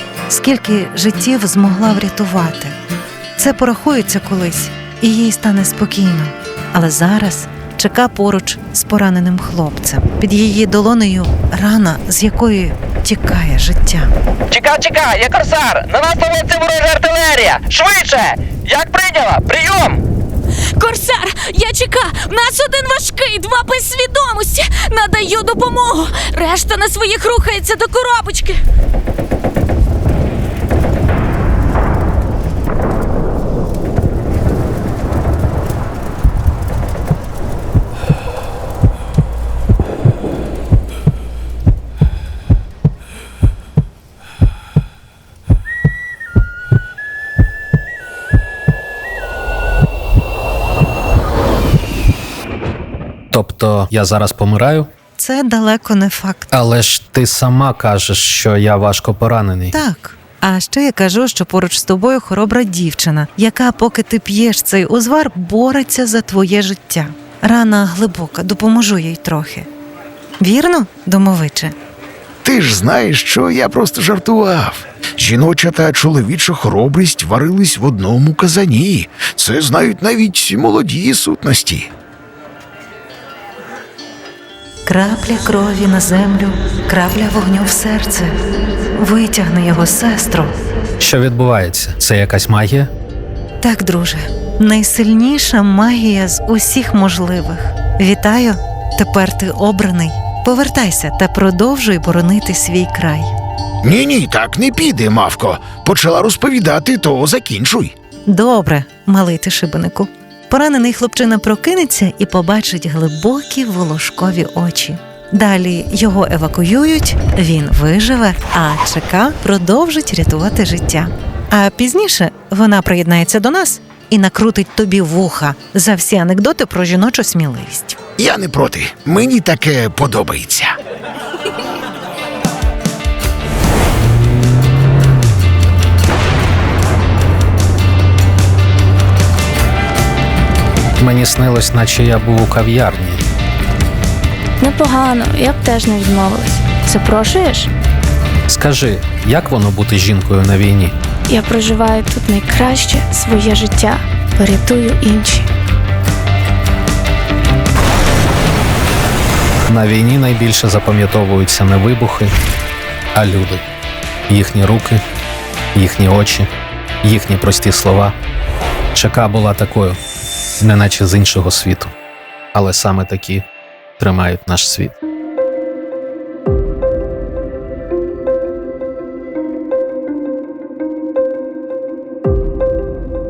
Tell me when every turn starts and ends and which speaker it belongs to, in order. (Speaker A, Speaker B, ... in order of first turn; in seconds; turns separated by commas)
Speaker A: 0.3-2.8, Speaker A: 3.4-14.1, Speaker B: 14.5-19.9, Speaker C: 20.8-28.6, Speaker D: 53.3-54.9, Speaker A: 55.2-56.5, Speaker D: 56.5-59.7, Speaker A: 59.7-69.7, Speaker A: 70.4-71.7, Speaker E: 72.4-81.9, Speaker A: 84.8-88.3, Speaker A: 88.9-90.5, Speaker D: 91.0-92.9, Speaker A: 93.6-103.3, Speaker E: 103.8-107.9, Speaker A: 108.3-128.0, Speaker E: 128.2-130.7, Speaker D: 141.0-143.2, Speaker F: 144.6-147.3, Speaker C: 146.9-147.7, Speaker D: 148.5-150.9, Speaker F: 151.3-155.5, Speaker D: 159.7-162.3, Speaker D: 163.1-163.6, Speaker D: 164.3-165.0, Speaker D: 165.7-166.5, Speaker D: 167.0-168.1, Speaker D: 168.9-170.0, Speaker D: 170.6-171.9, Speaker D: 172.5-173.4, Speaker D: 174.0-174.9